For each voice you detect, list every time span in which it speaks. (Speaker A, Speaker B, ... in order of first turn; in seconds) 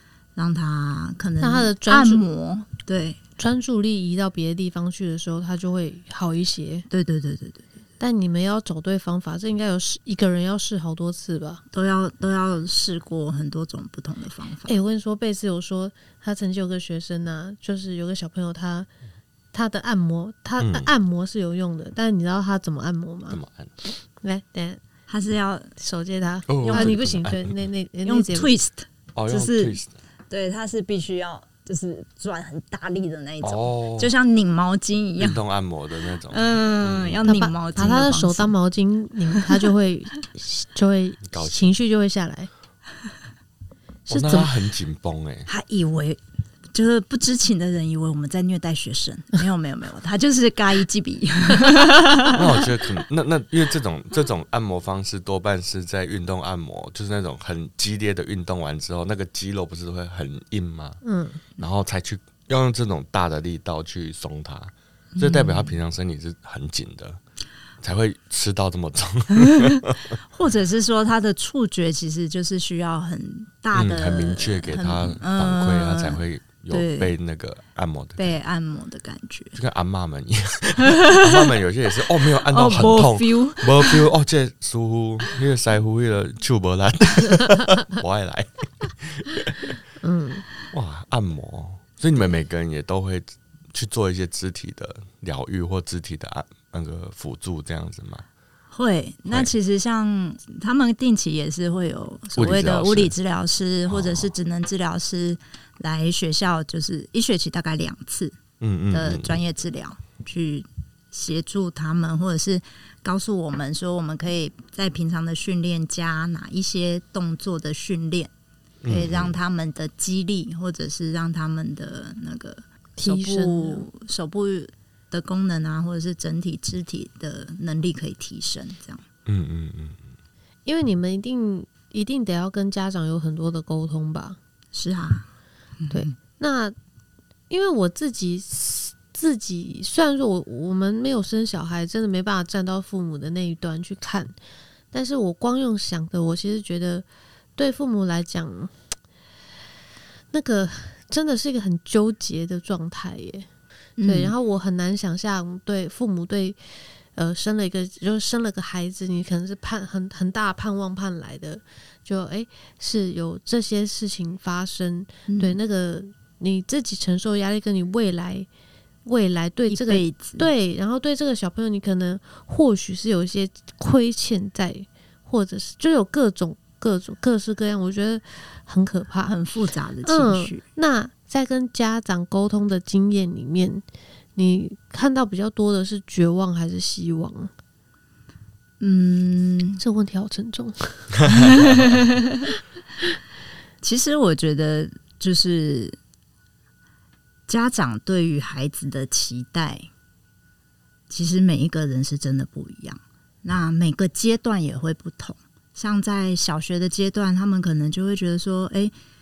Speaker A: 0.4-3.2, 6.9-7.7, 11.7-14.8, 25.1-25.7, 26.6-26.9, 28.1-29.8, 30.3-35.4, 36.3-38.5, 45.5-46.2, 46.7-52.6, 65.2-65.8, 70.3-77.1, 78.2-79.6, 80.8-81.5, 82.3-84.1, 98.7-108.4, 108.9-118.3, 118.9-129.0, 134.7-135.3, 135.8-136.1, 154.0-154.3, 165.3-165.6, 169.7-170.5, 179.3-180.6, 188.8-189.8, 191.3-192.4, 193.8-196.0, 197.5-199.9, 201.1-208.9
Speaker B: 1.4-2.2, 3.4-6.9, 8.0-11.6, 14.7-18.9, 19.5-23.4, 24.2-24.8, 25.8-28.5, 37.2-42.5, 44.1-44.5, 61.0-61.4, 90.0-90.4, 123.0-123.9, 130.7-134.4, 135.9-136.8, 137.5-144.3, 144.9-147.1, 147.6-148.7, 150.3-153.5, 154.0-156.6, 157.2-168.5, 169.1-179.3, 180.0-183.8, 184.4-187.5, 189.8-191.7
Speaker C: 20.6-20.9, 23.3-23.7, 26.5-27.6, 29.1-29.9, 33.4-34.1, 35.2-37.2, 41.3-41.7, 44.1-45.5, 52.3-61.0, 61.6-67.2, 67.8-70.2, 73.7-78.3, 79.5-89.8, 90.7-98.2, 102.4-103.1, 103.9-104.3, 108.6-109.4, 118.8-119.4, 129.3-130.0